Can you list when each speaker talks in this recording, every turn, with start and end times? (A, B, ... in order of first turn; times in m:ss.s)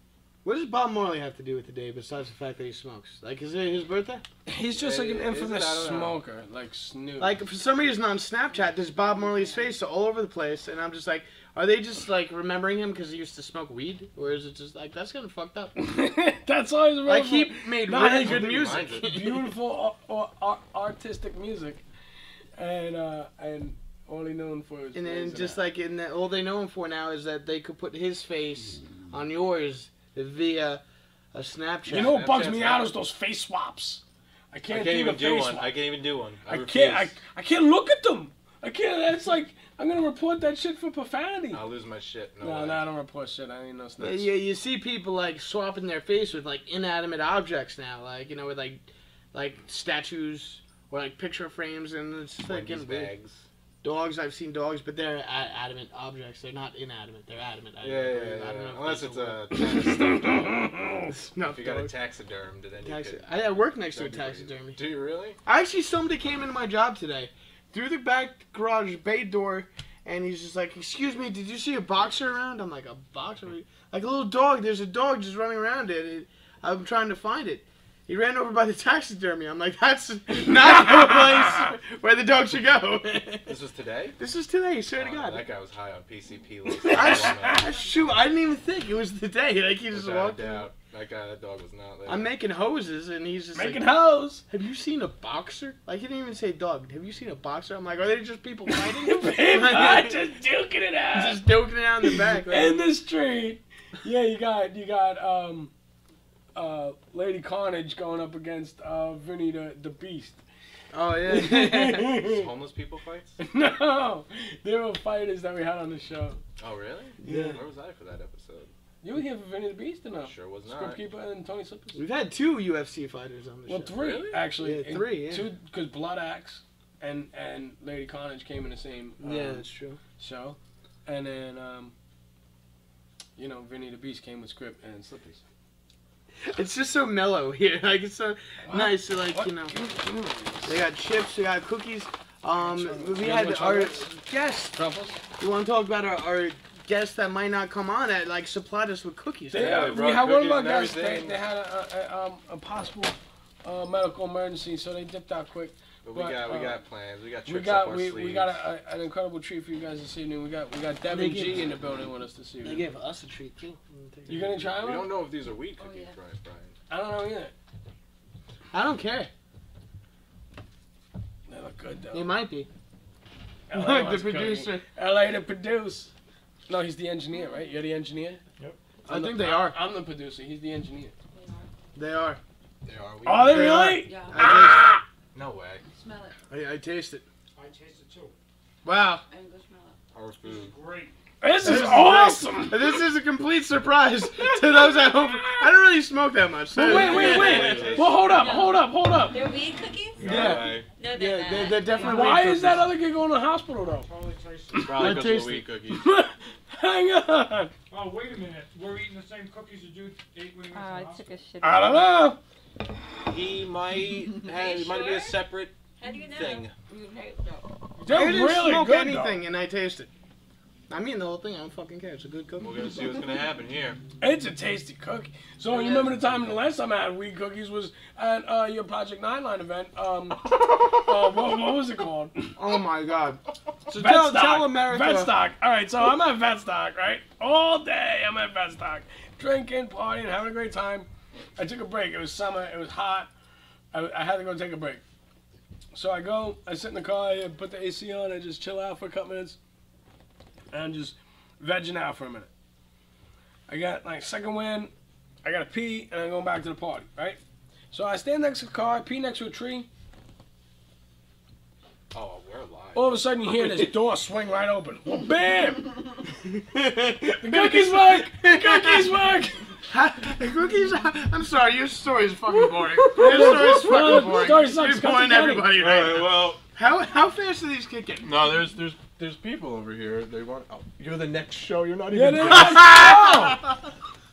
0:00.4-0:04.2 A
0:04.5-0:07.4 B
0:04.8-0:06.2 C
0:07.2-0:15.7 A
0:15.8-0:21.8 B
0:17.1-0:19.5 A
0:18.2-0:19.1 C
0:22.6-0:25.6 B
0:24.9-0:30.8 A
0:31.3-0:32.2 A
0:31.9-0:34.0 B
0:31.9-0:32.9 C
0:34.5-0:35.7 B
0:34.7-0:37.2 C
0:36.5-0:41.6 B
0:41.5-0:42.8 C
0:42.4-0:44.3 B
0:44.0-0:53.1 A
0:52.5-0:53.5 C
0:53.8-0:59.6 A
0:57.8-1:00.6 C
1:00.1-1:01.0 B
1:01.1-1:01.9 A
1:01.5-1:05.4 C
1:02.8-1:04.8 A
1:05.4-1:23.6 A
1:20.4-1:21.3 B
1:23.5-1:24.2 C
1:24.2-1:25.5 A
1:25.0-1:27.7 C
1:26.7-1:27.5 B
1:26.9-1:30.7 A
1:29.9-1:32.3 C
1:32.1-1:33.9 A
1:33.5-1:34.4 B
1:34.5-1:40.2 A
1:38.7-1:41.4 B
1:41.1-1:42.8 A
1:42.0-1:45.7 B
1:46.6-1:50.4 B
1:50.9-1:52.2 A
1:51.3-1:52.5 B
1:52.2-1:53.4 C
1:53.4-1:56.4 B
1:56.6-1:58.7 C
1:57.2-1:57.6 A
1:59.0-2:02.0 B
2:00.2-2:01.0 C
2:01.9-2:05.5 A
2:03.7-2:09.6 B
2:09.2-2:10.0 A
2:10.2-2:11.9 B
2:13.4-2:15.4 B
2:16.4-2:19.8 A
2:18.7-2:20.8 B
2:20.6-2:24.8 A
2:22.6-2:24.1 B
2:24.7-2:25.2 B
2:25.4-2:30.0 A
2:29.5-2:36.8 B
2:29.7-2:31.4 C
2:36.0-2:38.6 C
2:37.5-2:42.8 B
2:41.1-2:41.7 A
2:42.6-2:44.7 A
2:44.3-2:45.1 B
2:44.8-2:46.7 C
2:45.8-2:46.2 D
2:46.9-2:47.5 B
2:48.7-2:49.3 A
2:51.5-2:52.3 B
2:52.1-2:52.7 A
2:53.7-2:56.1 B
2:53.7-2:54.8 A
2:56.7-2:58.4 B
2:57.3-2:57.8 D
2:59.1-2:59.8 A
2:59.1-3:01.1 B
3:01.3-3:01.7 D
3:02.0-3:02.4 A
3:02.8-3:04.8 C
3:03.3-3:05.0 B
3:03.4-3:04.9 A
3:04.0-3:04.8 D
3:05.3-3:05.8 C
3:05.9-3:06.4 D
3:06.5-3:07.2 A
3:07.6-3:08.3 E
3:08.8-3:09.2 A
3:09.3-3:10.0 D
3:10.2-3:10.8 C
3:10.4-3:11.1 E
3:11.4-3:12.9 B
3:11.6-3:18.0 A
3:16.8-3:19.5 B
3:16.9-3:18.5 C
3:18.0-3:22.6 D
3:20.2-3:20.9 C
3:20.2-3:22.9 A
3:21.9-3:24.1 B
3:24.1-3:24.9 E
3:24.7-3:25.2 B
3:24.9-3:26.0 C
3:24.9-3:25.7 A
3:26.0-3:27.7 B
3:27.9-3:31.3 E
3:30.7-3:32.1 D
3:31.6-3:32.4 B
3:33.3-3:36.7 C
3:34.2-3:35.4 D
3:36.0-3:37.8 D
3:38.0-3:39.4 B
3:38.1-3:40.1 A
3:40.9-3:42.9 A
3:42.6-3:44.0 C
3:44.2-3:52.6 B
3:45.7-3:46.2 A
3:52.6-3:55.3 A
3:53.9-4:03.3 B
4:03.9-4:05.0 B
4:05.9-4:09.6 B
4:10.7-4:12.5 B
4:13.7-4:14.9 B
4:15.4-4:17.4 B
4:17.9-4:19.9 B
4:22.1-4:23.2 C
4:22.9-4:25.9 B
4:26.4-4:29.1 A
4:27.4-4:29.8 B
4:29.9-4:38.6 A
4:33.1-4:35.7 B
4:35.7-4:36.6 C
4:38.2-4:43.2 C
4:42.1-4:43.6 B
4:42.9-4:43.5 A